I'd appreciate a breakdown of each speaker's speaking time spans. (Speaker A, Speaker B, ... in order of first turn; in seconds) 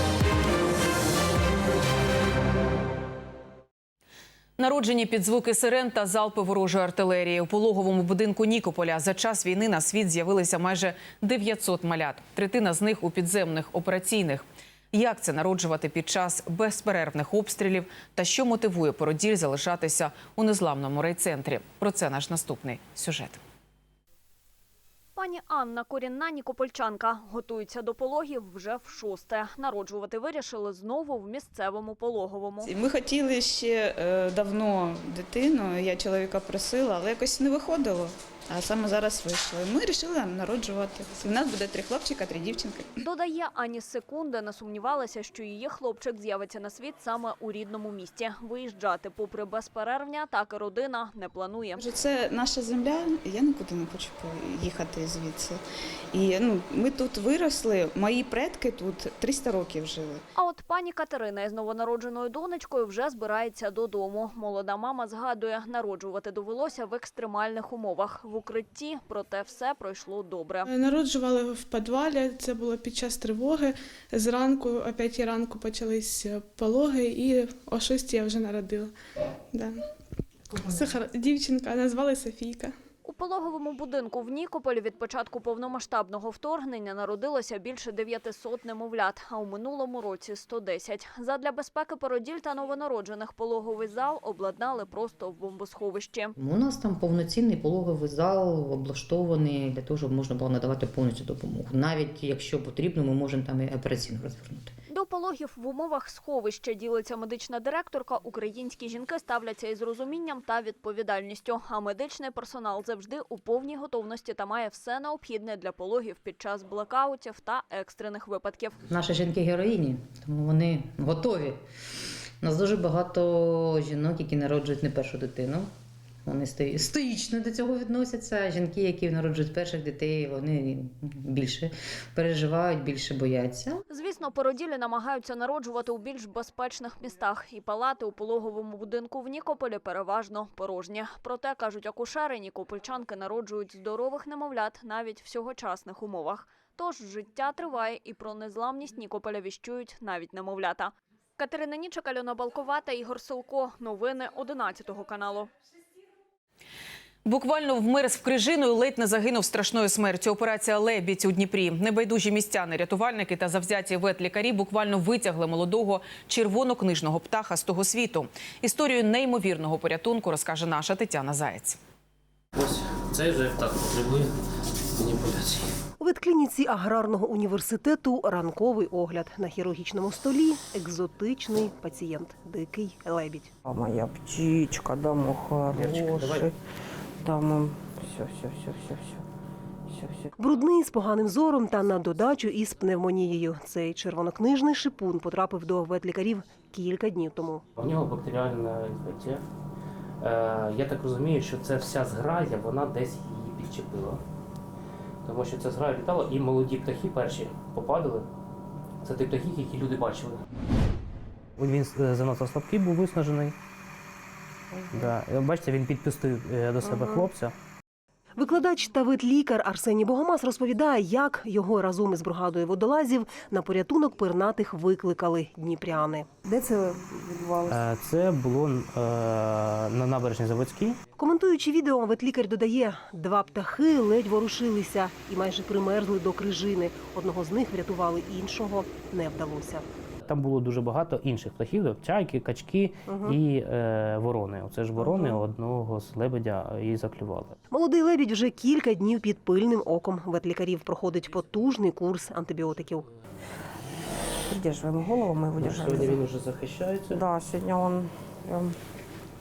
Speaker A: 4.6-23.4, 157.2-171.8
Speaker B: 25.1-32.7, 43.0-51.8, 60.4-70.7, 83.0-96.4, 104.9-119.2, 133.9-155.5
Speaker C: 32.6-43.0, 51.8-55.6, 56.1-60.2
Speaker D: 70.6-78.9, 79.5-79.8, 80.6-82.8
Speaker E: 96.5-104.7, 119.2-121.5, 122.5-125.7, 126.3-131.7, 132.2-133.7
Speaker F: 172.6-174.3, 175.0-175.6, 185.7-186.5, 197.8-199.4, 200.2-204.2, 205.2-208.3, 209.0-210.4, 211.6-213.6, 214.9-217.5, 227.7-231.0, 240.2-247.6, 255.6-257.2
Speaker G: 176.0-183.5, 190.4-197.6, 218.3-226.4, 231.2-239.9, 247.7-253.1
Speaker H: 183.6-186.6, 187.2-189.2, 189.9-190.3, 216.8-217.3, 226.4-227.8, 245.0-245.4, 254.5-256.2, 257.1-258.7